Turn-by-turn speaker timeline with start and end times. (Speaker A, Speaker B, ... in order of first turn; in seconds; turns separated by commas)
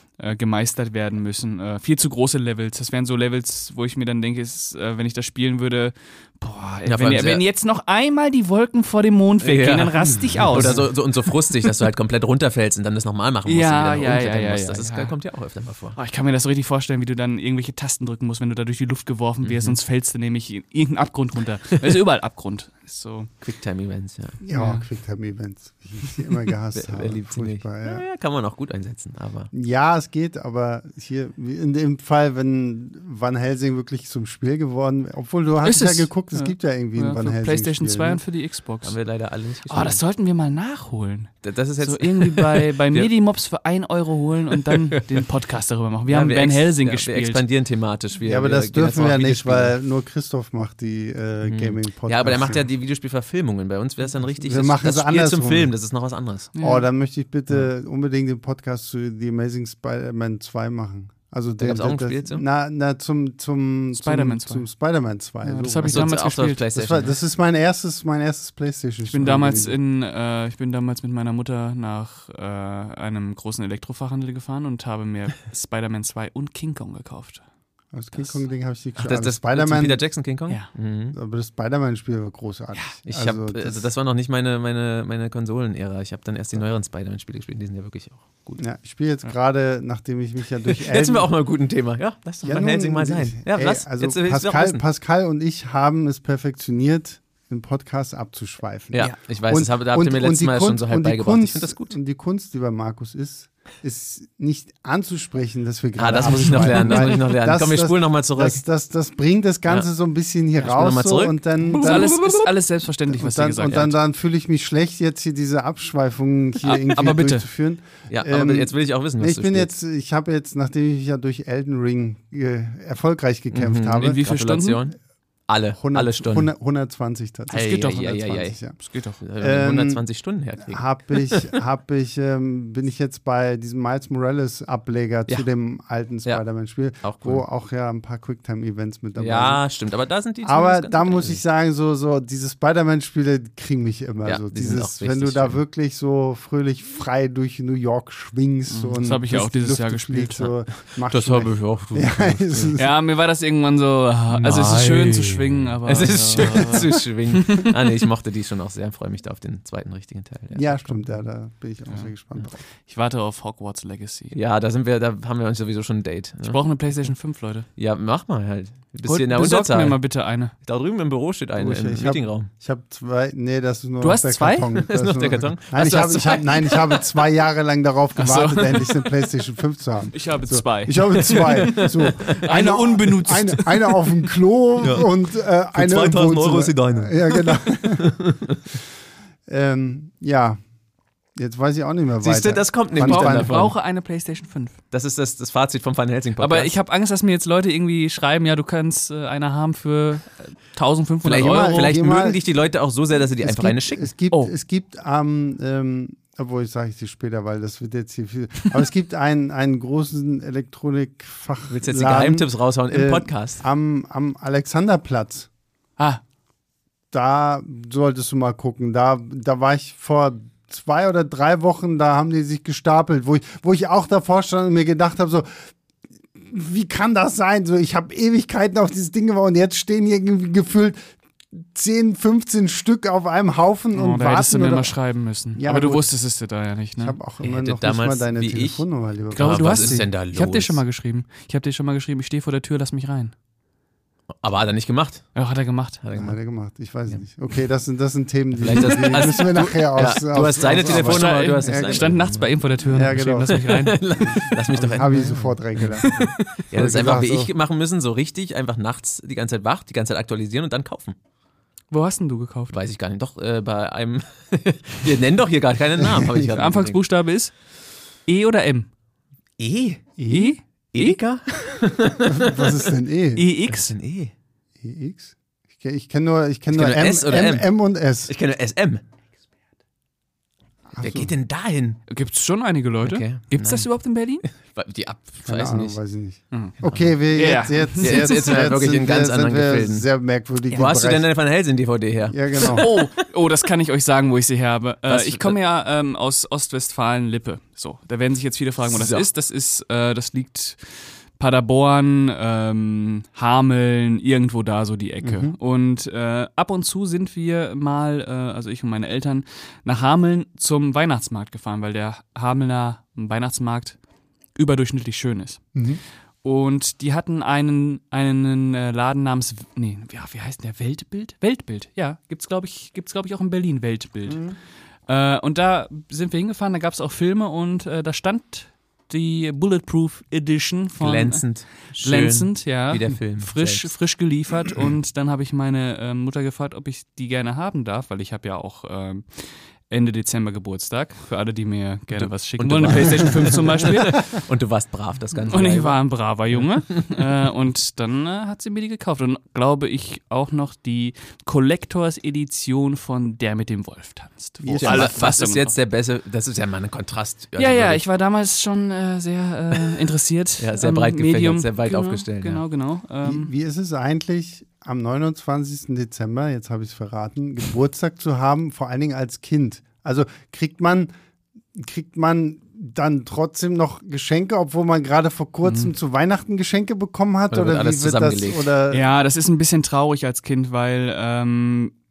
Speaker A: 0.2-10.9, Speaker B: 6.8-7.4, Speaker B: 9.4-16.0, Speaker A: 13.4-15.1, Speaker A: 15.9-23.3, Speaker B: 19.4-19.8, Speaker B: 23.4-24.4, Speaker C: 24.4-28.0, Speaker A: 24.5-24.8, Speaker B: 26.7-29.5, Speaker C: 29.5-38.2, Speaker A: 35.6-39.0, Speaker B: 38.8-40.0, Speaker A: 39.7-47.4, Speaker B: 41.4-43.1, Speaker B: 44.7-45.2, Speaker B: 46.1-49.8, Speaker C: 48.2-52.7, Speaker B: 51.4-56.5, Speaker C: 54.4-55.7, Speaker A: 56.5-56.8, Speaker C: 56.6-66.2, Speaker B: 61.6-62.4, Speaker A: 63.9-64.7, Speaker A: 65.4-66.7, Speaker B: 65.8-67.1, Speaker C: 66.7-69.8, Speaker A: 69.1-77.4, Speaker C: 77.9-80.0, Speaker B: 79.0-81.2, Speaker C: 81.1-83.8, Speaker B: 83.0-88.6, Speaker C: 88.6-91.3, Speaker B: 90.7-94.8, Speaker C: 92.4-112.2, Speaker B: 98.9-101.9, Speaker B: 106.0-108.6, Speaker A: 106.4-107.1, Speaker B: 110.6-112.5, Speaker A: 111.8-113.9, Speaker C: 113.1-124.2, Speaker A: 116.6-117.5, Speaker B: 118.1-119.7, Speaker B: 123.5-125.0, Speaker A: 124.0-124.8, Speaker B: 125.5-126.5, Speaker C: 125.8-128.8, Speaker B: 127.5-128.6, Speaker A: 128.8-129.2, Speaker B: 129.2-131.5, Speaker C: 129.4-130.0, Speaker C: 130.7-139.6, Speaker B: 137.0-137.4, Speaker B: 139.2-141.4, Speaker C: 140.4-152.9, Speaker B: 144.2-145.6, Speaker A: 148.7-150.5, Speaker B: 151.1-152.8, Speaker A: 152.8-157.8, Speaker B: 154.3-161.0, Speaker C: 156.4-156.9, Speaker C: 160.5-162.6, Speaker A: 162.8-164.3, Speaker B: 164.3-166.6, Speaker A: 166.4-167.7, Speaker B: 167.8-170.0, Speaker A: 169.0-170.5, Speaker B: 170.6-172.5, Speaker C: 171.6-188.2, Speaker A: 174.0-174.8, Speaker B: 174.8-177.0, Speaker A: 178.2-179.1, Speaker A: 180.1-184.2, Speaker B: 181.3-182.4, Speaker B: 184.8-185.1, Speaker B: 185.7-188.6, Speaker C: 189.5-190.6, Speaker C: 191.3-193.7, Speaker B: 192.2-193.7, Speaker A: 193.0-194.8, Speaker B: 194.9-196.7, Speaker A: 196.4-201.9, Speaker B: 201.2-204.5, Speaker C: 201.3-202.4, Speaker C: 203.4-215.5, Speaker B: 211.7-213.6, Speaker C: 217.1-225.6, Speaker C: 226.4-231.0, Speaker C: 231.5-234.9, Speaker A: 233.9-237.2, Speaker C: 235.6-236.1, Speaker C: 237.0-240.1, Speaker B: 237.4-240.8, Speaker A: 239.3-243.3, Speaker B: 244.4-245.3, Speaker A: 245.3-246.0, Speaker B: 246.0-246.4, Speaker C: 246.1-252.3, Speaker B: 248.6-252.5, Speaker A: 250.8-254.0, Speaker C: 252.8-253.6, Speaker B: 253.5-261.1, Speaker C: 254.3-257.5, Speaker A: 256.0-256.3, Speaker A: 261.9-262.7, Speaker B: 262.7-267.0, Speaker C: 266.0-266.5, Speaker A: 266.5-267.5, Speaker A: 268.2-268.9, Speaker B: 269.6-270.1, Speaker C: 270.2-270.6, Speaker A: 270.3-271.2, Speaker B: 270.9-272.6, Speaker C: 272.2-273.4, Speaker A: 273.4-273.9, Speaker B: 273.6-274.3, Speaker C: 274.8-278.3, Speaker B: 276.7-277.7, Speaker B: 278.2-279.0, Speaker C: 280.9-281.3, Speaker B: 281.0-282.0, Speaker A: 282.1-284.4, Speaker B: 283.0-283.9, Speaker B: 284.5-286.0, Speaker C: 285.4-291.2, Speaker B: 286.8-287.1, Speaker A: 287.3-288.4, Speaker B: 288.0-290.1, Speaker B: 290.7-293.1, Speaker C: 292.3-292.9, Speaker A: 292.6-313.9, Speaker B: 295.1-295.6, Speaker B: 298.8-299.3, Speaker C: 305.2-305.6, Speaker A: 314.6-315.7, Speaker C: 315.7-316.0, Speaker A: 316.4-324.5, Speaker C: 324.3-324.5, Speaker A: 325.1-344.4, Speaker B: 331.0-333.9, Speaker B: 342.1-347.2, Speaker A: 345.5-355.7, Speaker C: 354.6-355.1, Speaker B: 354.7-358.0, Speaker A: 357.6-363.5, Speaker B: 360.6-362.6, Speaker C: 363.2-371.1, Speaker C: 371.7-379.0, Speaker A: 375.6-375.9, Speaker B: 377.5-378.7, Speaker A: 378.9-381.9